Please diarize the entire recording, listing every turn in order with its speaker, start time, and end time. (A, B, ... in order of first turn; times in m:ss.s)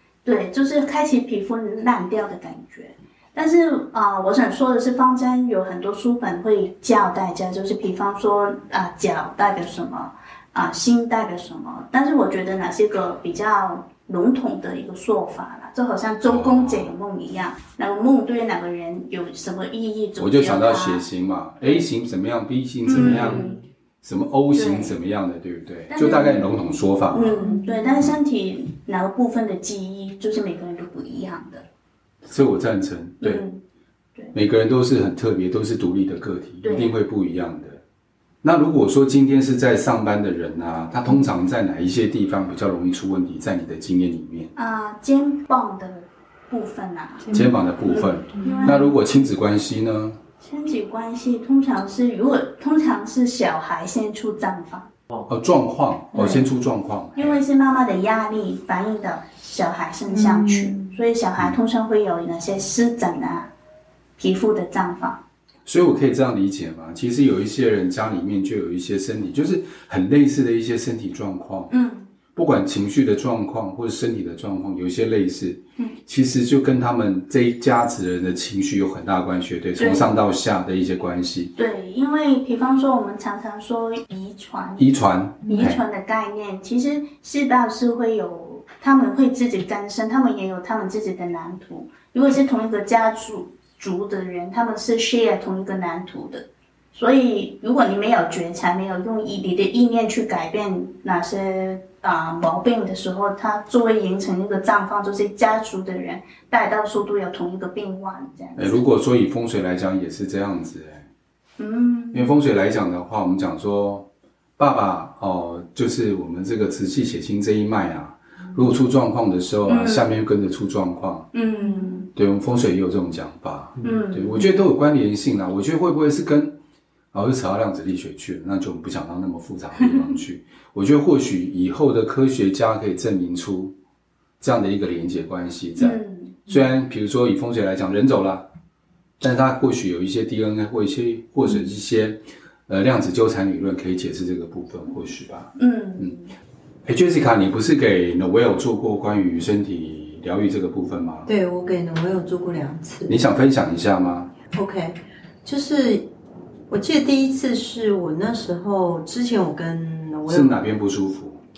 0:00.2-0:21.0 A
0:16.2-0:16.9 B
0:20.2-0:23.5 B
0:21.6-0:21.8 A
0:22.8-0:23.6 A
0:24.0-0:27.4 B
0:24.5-0:25.0 A
0:25.9-0:26.5 A
0:27.1-0:31.6 A
0:27.4-0:27.8 C
0:32.2-0:33.4 B
0:33.2-0:33.6 A
0:34.3-0:37.8 B
0:36.6-0:37.0 A
0:38.4-0:44.5 B
0:44.5-0:47.3 A
0:47.2-0:48.9 C
0:47.3-0:50.2 B
0:47.9-0:48.9 A
0:50.4-0:54.9 A
0:55.3-0:57.4 B
0:57.2-1:03.5 A
1:00.1-1:01.0 C
1:04.2-1:05.2 A
1:05.6-1:11.7 B
1:11.7-1:12.1 A
1:12.3-1:21.5 B
1:19.8-1:20.1 A
1:21.6-1:24.9 A
1:24.8-1:25.8 B
1:25.5-1:48.8 A
1:48.6-1:51.1 B
1:51.6-1:52.3 A
1:52.1-2:01.3 B
1:59.6-2:00.2 A
2:01.3-2:02.1 A
2:02.1-2:06.6 B
2:03.8-2:04.3 A
2:07.1-2:13.8 B
2:14.4-2:18.5 B
2:15.8-2:16.6 A
2:19.2-2:26.1 B
2:25.6-2:26.3 A
2:26.8-2:31.3 B
2:31.2-2:33.2 C
2:33.1-2:34.3 B
2:34.5-2:36.1 C
2:36.7-2:40.6 C
2:40.3-2:41.4 B